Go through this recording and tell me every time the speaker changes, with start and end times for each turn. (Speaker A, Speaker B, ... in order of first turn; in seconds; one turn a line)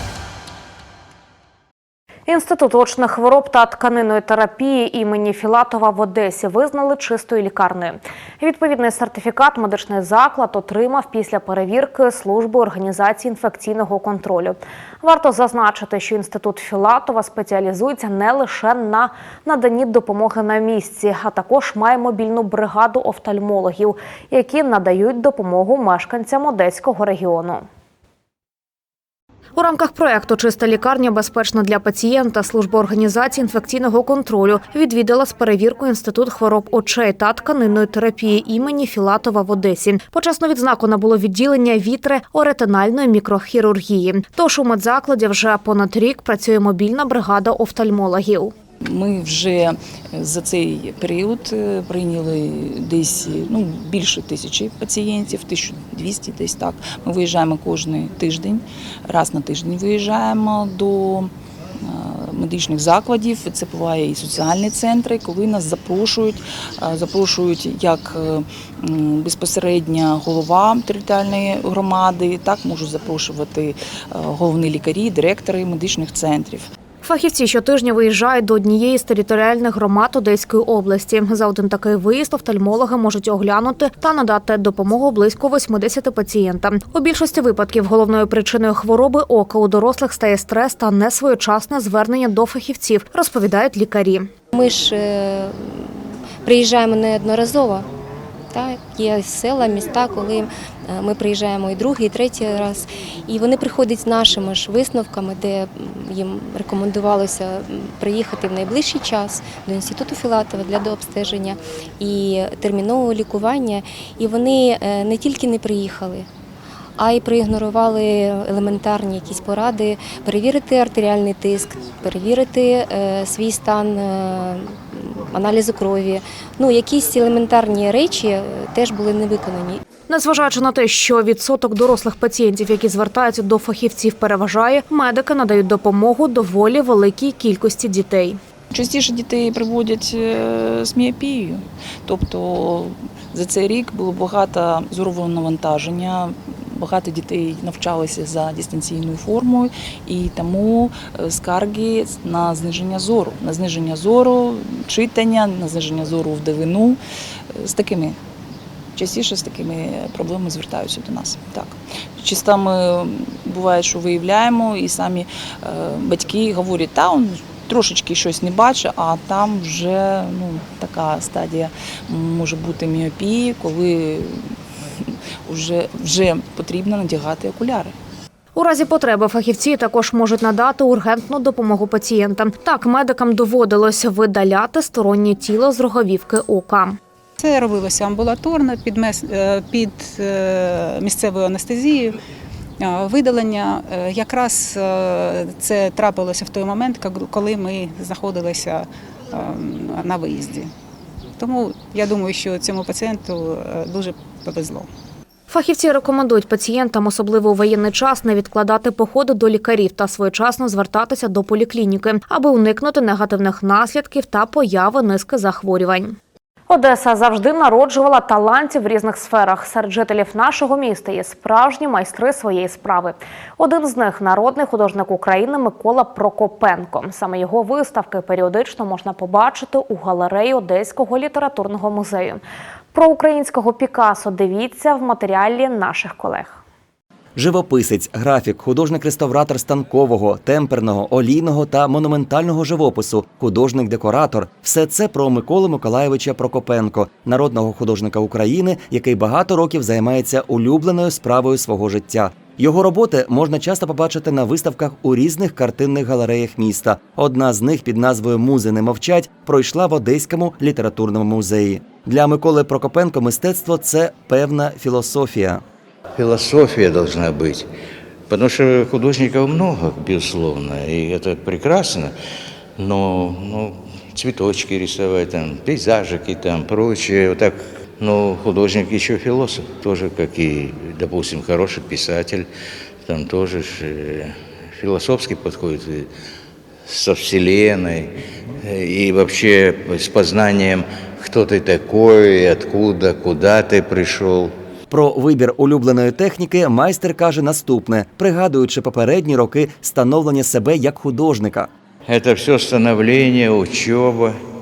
Speaker A: 2.3-27.6
Speaker A: 29.6-48.5
Speaker B: 48.8-61.3
Speaker B: 61.9-76.7
Speaker A: 77.0-94.3
Speaker C: 94.5-97.9
Speaker C: 98.5-116.3
Speaker C: 117.0-129.8
Speaker A: 130.1-138.4
Speaker B: 138.7-157.0
Speaker B: 157.5-158.2
Speaker B: 159.0-174.5
Speaker B: 175.5-177.9
Speaker A: 178.5-187.0
Speaker D: 187.4-192.2
Speaker D: 192.8-200.7
Speaker D: 201.4-204.9
Speaker A: 205.5-216.2
Speaker A: 216.7-232.4
Speaker A: 232.9-236.6
Speaker E: 237.3-265.6
Speaker F: 266.2-267.7
Speaker F: 268.3-272.1
Speaker F: 272.8-282.5
Speaker F: 283.1-286.1
Speaker F: 286.9-288.1
Speaker F: 288.6-294.5
Speaker E: 294.9-301.7
Speaker F: 302.1-304.3